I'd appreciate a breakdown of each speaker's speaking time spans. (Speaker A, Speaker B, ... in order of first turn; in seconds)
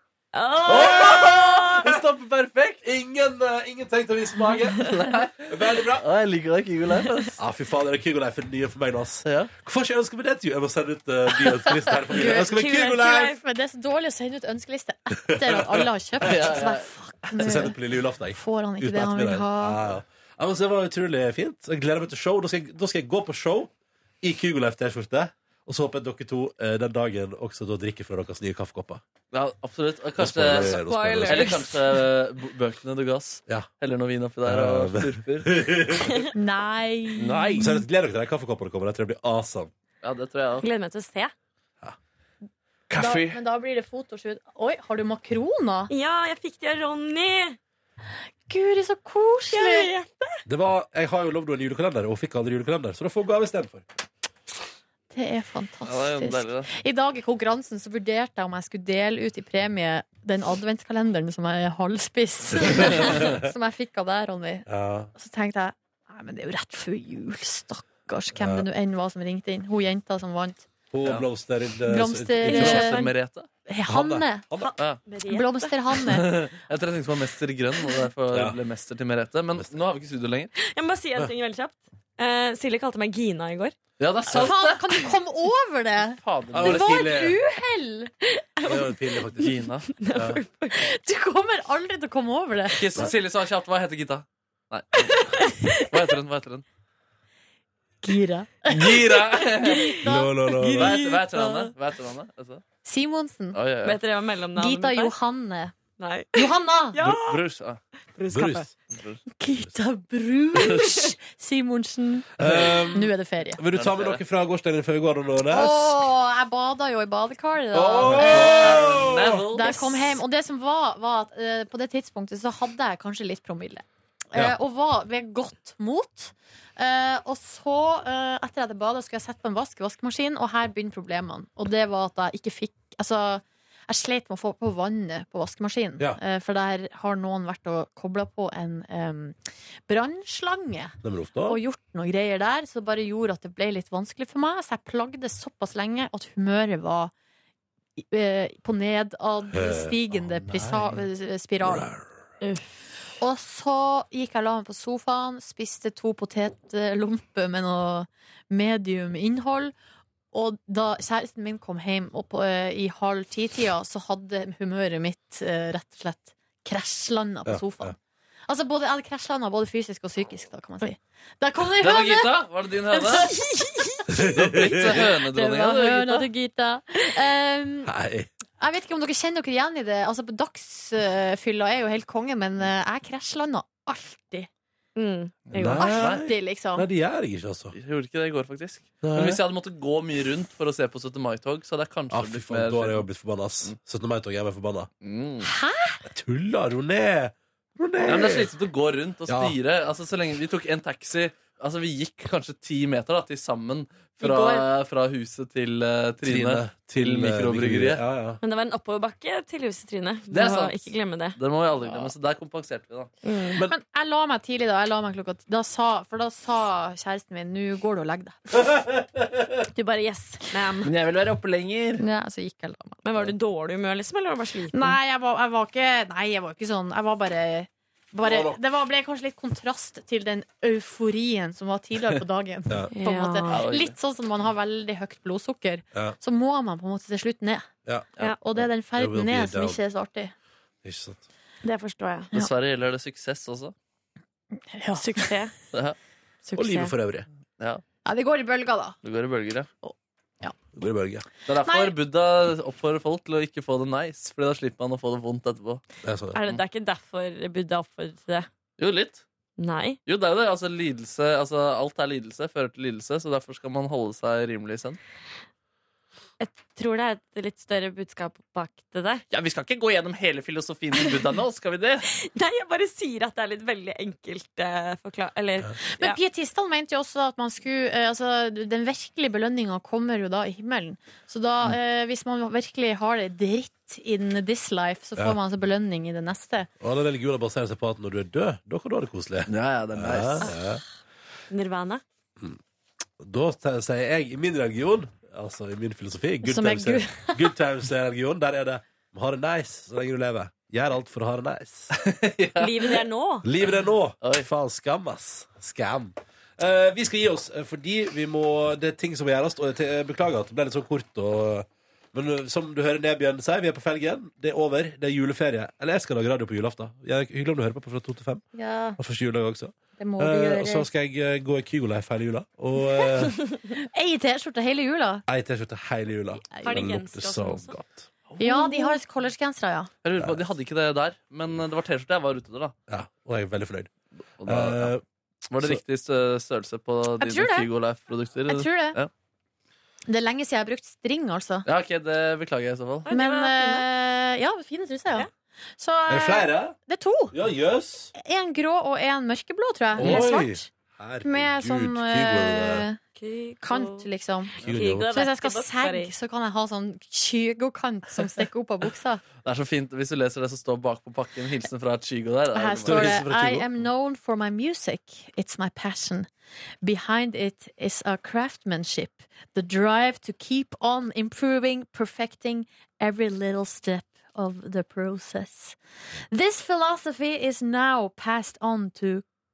Speaker A: 0.3-1.8, 12.4-13.4, 30.6-31.7, 40.6-41.3, 45.9-47.6, 49.5-50.4, 72.5-73.1, 74.6-75.7, 80.6-83.8, 88.4-89.0, 89.9-90.7, 103.8-105.1, 106.0-107.4, 108.2-108.7, 152.4-152.8, 184.9-186.0, 204.2-204.6, 208.4-212.1, 213.2-213.6, 219.7-220.9, 223.0-225.0, 232.9-233.6, 241.6-242.3, 245.0-245.5, 246.4-246.9, 256.3-258.5, 259.6-260.0, 266.4-269.2, 272.1-276.2, 290.4-290.7, 291.5-292.0, 302.6-303.5, 326.6-327.8, 328.5-329.0, 343.1-343.9, 353.1-354.1, 354.6-356.1
Speaker B: 0.6-2.0, 2.8-4.9, 5.5-6.0, 7.4-13.2, 15.2-16.4, 17.4-29.0, 30.2-31.5, 34.4-36.1, 37.6-39.7, 50.5-53.9, 62.8-63.4, 64.7-65.1, 68.3-68.7, 70.9-73.0, 73.9-74.7, 78.3-78.6, 86.5-87.4, 88.7-89.5, 90.1-90.4, 100.0-101.0, 108.3-108.7, 112.4-115.9, 117.7-119.4, 141.0-141.6, 149.5-150.9, 151.6-152.0, 167.4-167.9, 174.1-175.0, 177.8-178.3, 185.6-187.7, 189.0-189.4, 192.1-194.9, 196.0-198.5, 199.3-199.6, 206.2-208.4, 228.2-228.6, 238.9-239.8, 240.8-241.2, 246.6-247.3, 250.8-251.2, 256.0-256.4, 286.8-290.8, 293.2-301.9, 303.4-318.4, 319.0-323.4, 325.3-328.1, 330.2-330.4, 332.9-333.9, 334.4-335.0, 346.1-346.8, 347.3-348.1, 350.0-352.8, 354.6-355.1, 362.8-363.8
Speaker C: 0.7-2.8, 4.8-7.3, 9.2-9.5, 11.5-12.0, 16.2-16.9, 29.3-35.7, 37.2-37.6, 40.0-40.6, 42.9-43.4, 55.8-56.7, 72.5-73.5, 76.0-80.5, 84.0-85.0, 86.2-87.2, 89.4-89.9, 92.7-96.6, 98.7-100.0, 100.7-102.6, 103.5-104.0, 107.2-107.8, 108.9-109.2, 113.7-114.2, 118.0-120.1, 171.8-173.3, 174.2-176.3, 185.5-186.2, 187.7-193.1, 195.0-195.5, 198.0-208.0, 210.3-213.1, 220.8-222.0, 233.5-233.9, 242.3-243.7, 245.7-246.0, 249.0-249.7, 251.5-255.8, 258.8-259.2, 260.1-265.0, 269.3-272.1, 289.5-290.5, 301.9-303.0, 304.2-304.5, 330.0-332.7, 334.4-334.9, 335.5-339.1, 341.6-343.1, 350.0-350.3, 359.4-363.2
Speaker D: 12.1-17.8, 18.3-19.8, 36.3-37.8, 43.0-45.9, 48.5-49.9, 55.1-70.7, 71.9-73.0, 73.7-74.5, 75.3-76.4, 84.3-88.1, 90.7-92.8, 98.0-101.7, 102.8-103.6, 104.5-105.7, 106.3-107.0, 109.4-113.6, 115.5-139.4, 139.9-147.1, 148.0-151.9, 153.2-159.7, 160.3-167.9, 168.5-174.1, 174.9-177.9, 178.6-184.5, 185.8-186.8, 195.4-196.0, 213.6-218.8, 222.0-223.0, 224.7-237.7, 238.4-240.3, 244.7-245.3, 248.0-249.0, 249.8-250.5, 251.6-251.9, 275.9-286.7, 296.4-297.5, 318.5-319.0, 320.0-320.9, 323.7-325.2, 326.5-326.9, 328.4-329.9, 337.2-337.7, 338.5-339.0, 340.1-341.6, 343.1-347.4, 348.1-350.7, 351.2-353.0, 353.6-359.2, 362.5-366.3, 366.8-375.8, 376.3-379.2